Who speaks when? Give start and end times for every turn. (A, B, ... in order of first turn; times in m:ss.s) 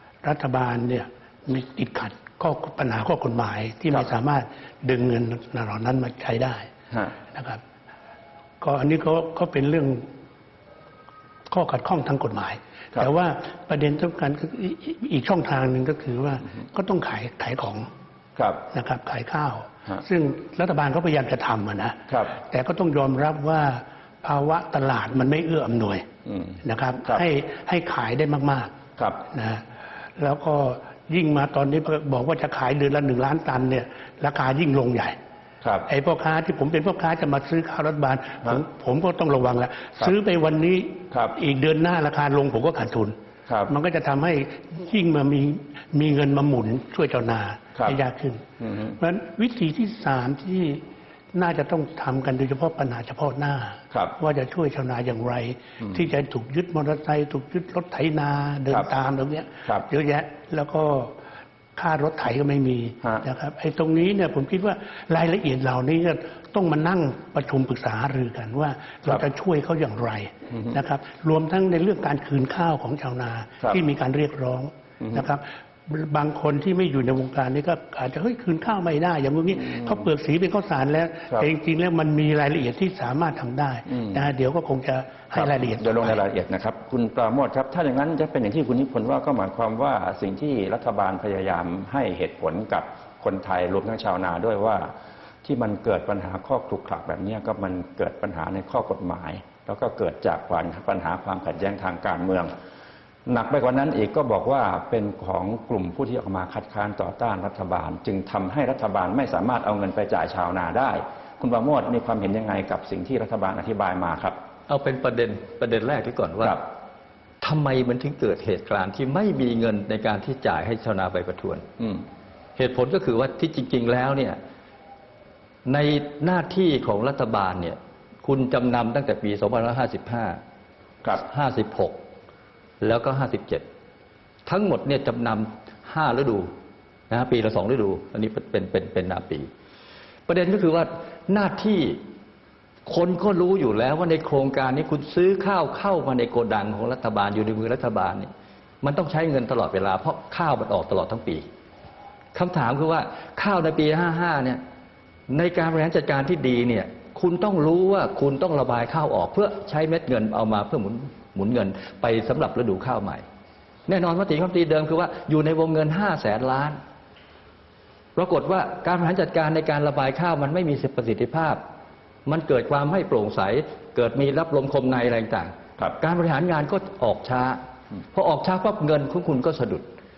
0:00.2-0:06.7 A
0:07.3-0:07.6 A
0:08.6-0:10.0 A
0:11.5-0:17.9 A
0:18.4-0:18.6 B
0:18.7-0:26.0 A
0:26.3-0:26.6 B
0:26.6-0:28.7 A
0:29.3-0:29.6 A
0:30.2-0:35.2 A
0:35.6-0:35.9 B
0:35.9-0:43.1 A
0:43.7-1:01.1 A
1:01.8-1:26.2 A
1:25.3-1:34.9 B
1:35.4-1:42.5 B
1:43.3-1:54.4 B
1:54.7-1:56.7 C
1:57.4-2:01.6 C
2:02.6-2:04.4 C
2:05.6-2:10.4 C
2:11.2-2:12.0 C
2:12.8-2:13.7 C
2:14.5-2:16.5 C
2:17.1-2:19.5 C
2:20.3-2:22.0 C
2:22.8-2:28.3 C
2:28.8-2:31.5 C
2:32.3-2:34.6 C
2:35.3-2:43.2 C
2:43.9-2:46.8 C
2:48.2-2:51.6 C
2:52.2-2:57.6 C
2:58.1-2:59.9 C